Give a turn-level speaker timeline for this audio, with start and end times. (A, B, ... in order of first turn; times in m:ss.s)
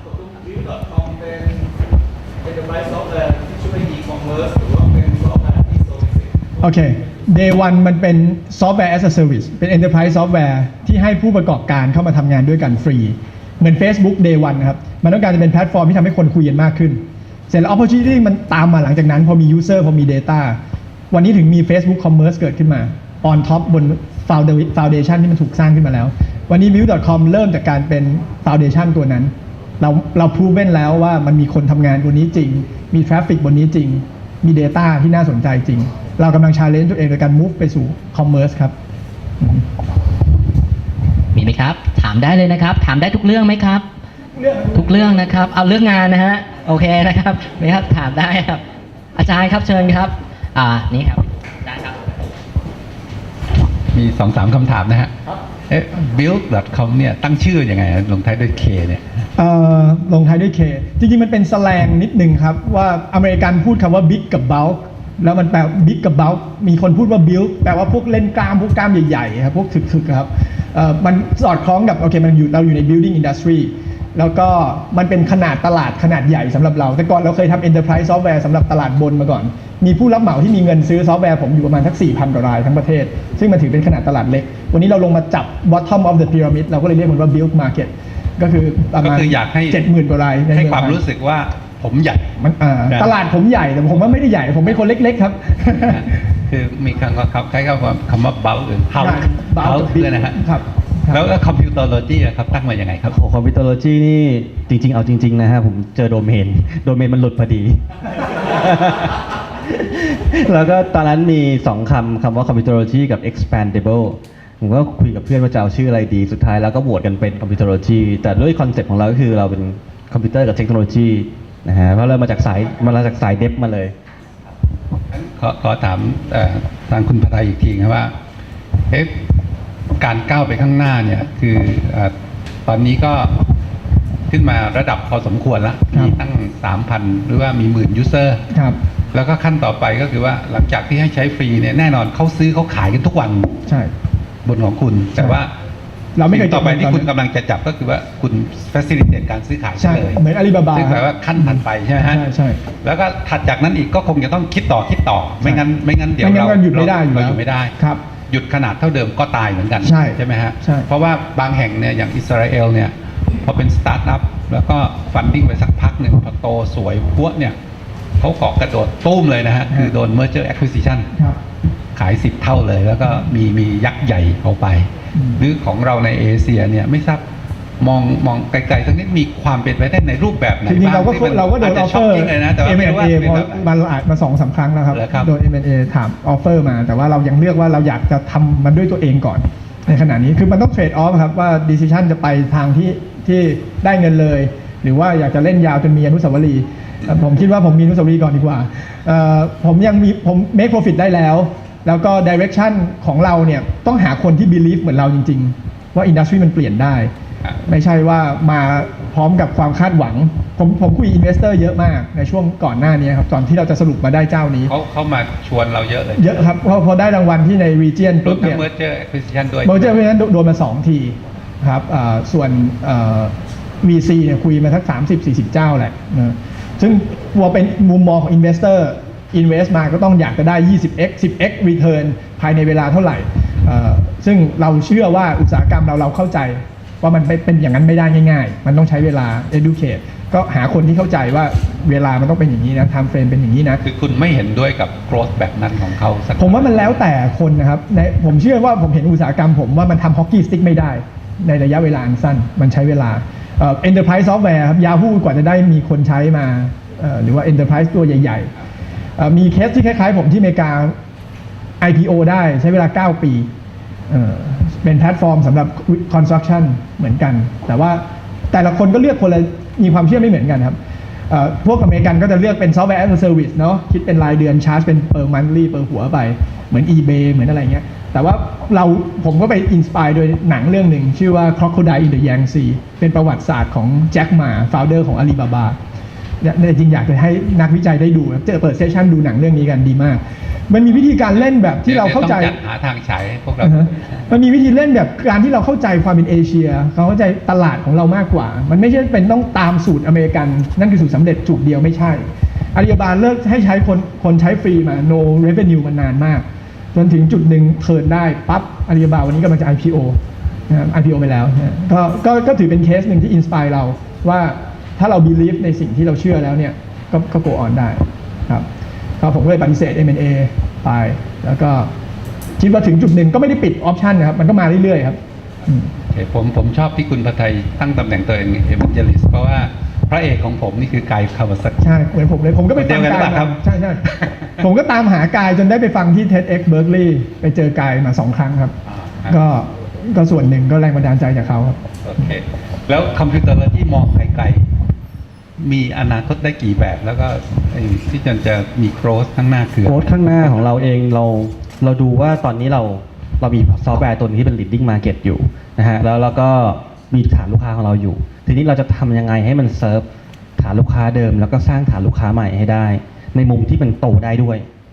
0:00.2-0:01.7 A
0:02.4-0:06.8 A
0:06.6-0:20.6 B
0:21.1-0:38.7 B
0:41.3-0:43.8 C
0:44.4-0:45.0 B
0:44.7-0:48.6 C
0:49.2-0:52.0 C
0:53.9-0:55.1 D
0:55.7-0:59.2 D
0:59.4-1:31.0 B
1:29.0-1:29.9 D
1:30.5-1:32.3 D
1:32.4-1:36.1 B
1:35.8-1:40.5 D
1:39.0-1:41.3 B
1:41.1-1:43.2 D
1:43.1-2:03.9 E
2:05.1-2:08.1 D
2:09.9-2:12.1 D
2:12.7-2:13.4 D
2:14.3-2:18.4 D
2:18.5-2:18.8 B
2:19.1-2:23.5 D
2:24.4-2:25.5 D
2:26.2-2:27.1 B
2:26.2-2:30.2 D
2:29.8-2:32.6 B
2:30.7-2:32.2 D
2:32.8-2:37.8 D
2:36.2-2:38.0 B
2:38.3-2:47.6 D
2:39.8-2:40.9 B
2:48.2-2:51.1 D
2:52.0-2:57.2 D
2:55.1-2:55.4 B
2:57.8-3:03.7 D
3:00.7-3:27.1 B
3:04.9-3:05.3 D
3:27.6-3:34.7 B
3:34.7-3:36.6 D
3:36.2-3:38.6 B
3:38.2-3:40.0 D
3:39.6-4:03.8 B
4:03.8-4:07.1 D
4:06.4-4:18.5 B
4:19.2-4:20.9 B
4:21.8-4:23.5 B
4:24.1-4:30.8 B
4:31.3-4:45.8 B
4:46.4-4:52.6 B
4:51.8-4:54.2 D
4:53.6-5:10.2 B
5:10.7-5:18.7 B
5:19.2-5:21.9 B
5:22.6-5:25.9 B
5:26.1-5:32.0 D
5:31.8-5:38.7 B
5:32.7-5:33.6 D
5:38.9-5:39.4 D
5:39.3-5:41.8 B
5:42.0-5:44.7 D
5:45.6-5:50.8 D
5:49.8-6:00.0 E
6:00.6-6:04.6 E